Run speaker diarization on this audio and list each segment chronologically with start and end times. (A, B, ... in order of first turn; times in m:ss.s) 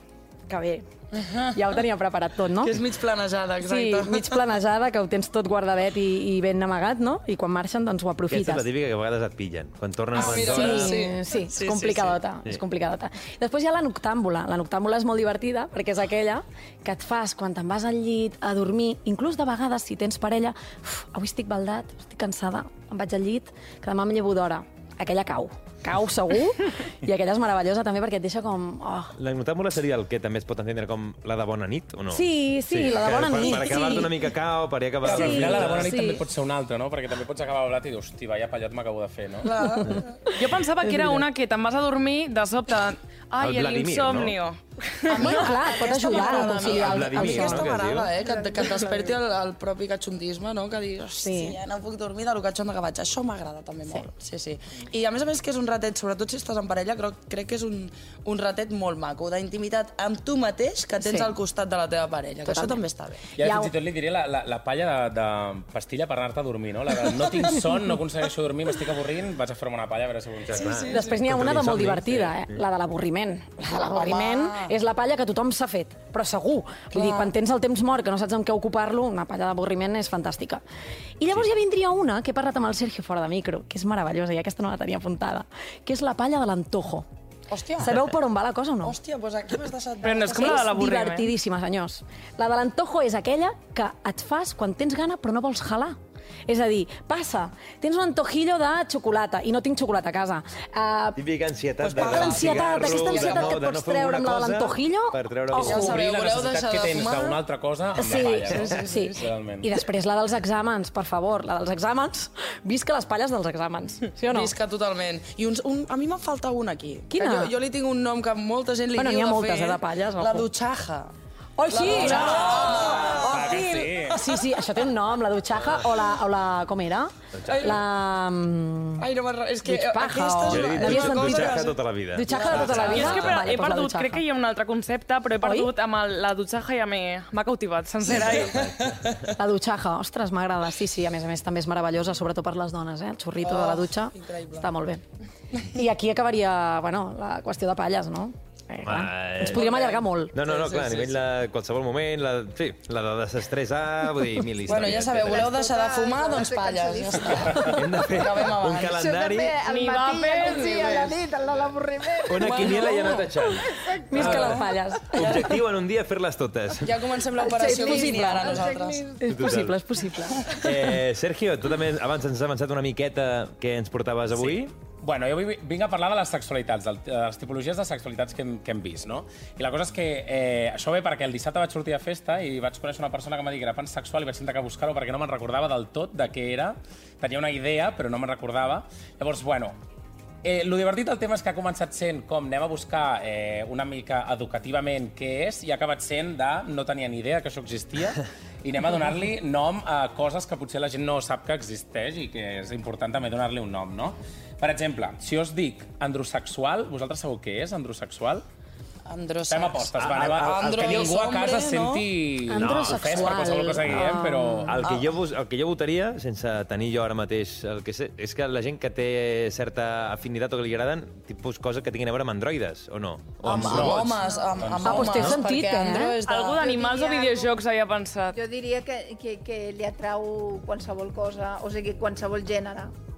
0:00.5-0:00.9 A
0:01.2-0:01.6 B
0:01.5-0:02.8 A
0:02.6-0:04.4 B
0:03.6-0:08.7 A
0:08.3-0:11.0 C
0:10.1-0:12.2 B
0:10.2-0:29.1 A
0:29.2-0:36.0 C
0:32.1-0:34.1 A
0:35.0-0:36.2 A
0:35.0-0:39.5 D
0:39.4-0:40.4 B
0:40.4-0:45.3 E
0:43.4-0:44.4 C
0:45.1-1:03.3 B
0:45.2-0:47.7 A
0:46.5-0:48.1 C
0:51.2-0:51.6 A
1:01.0-1:01.3 A
1:02.5-1:02.8 A
1:03.4-1:10.8 D
1:03.4-1:03.7 A
1:10.5-1:12.6 C
1:10.5-1:11.2 B
1:10.9-1:20.6 A
1:11.6-1:12.3 D
1:13.7-1:14.8 B
1:16.9-1:17.3 B
1:21.2-1:27.1 A
1:27.5-1:28.1 B
1:27.8-1:29.0 A
1:28.8-1:30.7 B
1:30.0-1:31.3 E
1:30.2-1:41.2 A
1:41.2-1:46.0 C
1:41.8-1:43.6 B
1:42.0-1:46.0 A
1:45.6-1:47.4 B
1:45.6-1:49.7 D
1:48.0-1:54.5 A
1:48.5-1:49.1 B
1:54.3-2:01.1 B
1:57.1-1:57.5 A
1:58.9-2:00.5 A
2:01.6-2:09.1 A
2:01.7-2:04.5 B
2:02.1-2:04.2 D
2:05.5-2:06.0 C
2:07.3-2:07.8 C
2:07.5-2:07.8 B
2:09.0-2:13.2 B
2:09.6-2:14.2 A
2:10.5-2:13.5 C
2:12.9-2:18.6 E
2:15.4-2:15.7 A
2:18.1-2:19.3 C
2:18.1-2:19.3 B
2:19.4-2:25.0 A
2:23.4-2:24.7 B
2:25.6-2:30.3 A
2:28.8-2:29.7 C
2:29.5-2:31.2 B
2:30.3-2:35.5 C
2:34.6-2:39.0 B
2:34.7-2:38.0 F
2:37.5-2:39.6 C
2:38.8-2:44.7 F
2:39.6-2:41.0 E
2:40.7-2:41.2 B
2:42.3-2:47.0 C
2:42.4-2:43.4 B
2:44.1-2:45.6 A
2:46.8-2:49.0 B
2:47.4-2:49.4 F
2:47.6-2:48.6 A
2:49.2-2:50.4 A
2:49.2-2:49.8 C
2:50.6-2:54.7 C
2:54.4-3:09.8 D
3:10.4-3:28.4 D
3:29.1-3:32.1 B
3:29.5-3:34.9 D
3:30.0-3:31.1 C
3:32.5-3:34.8 A
3:32.6-3:33.4 C
3:34.7-3:44.2 C
3:43.4-3:46.6 B
3:43.5-3:45.3 D
3:44.0-3:44.8 F
3:44.8-3:46.2 A
3:46.3-3:48.4 E
3:46.6-3:47.6 F
3:48.3-3:52.9 F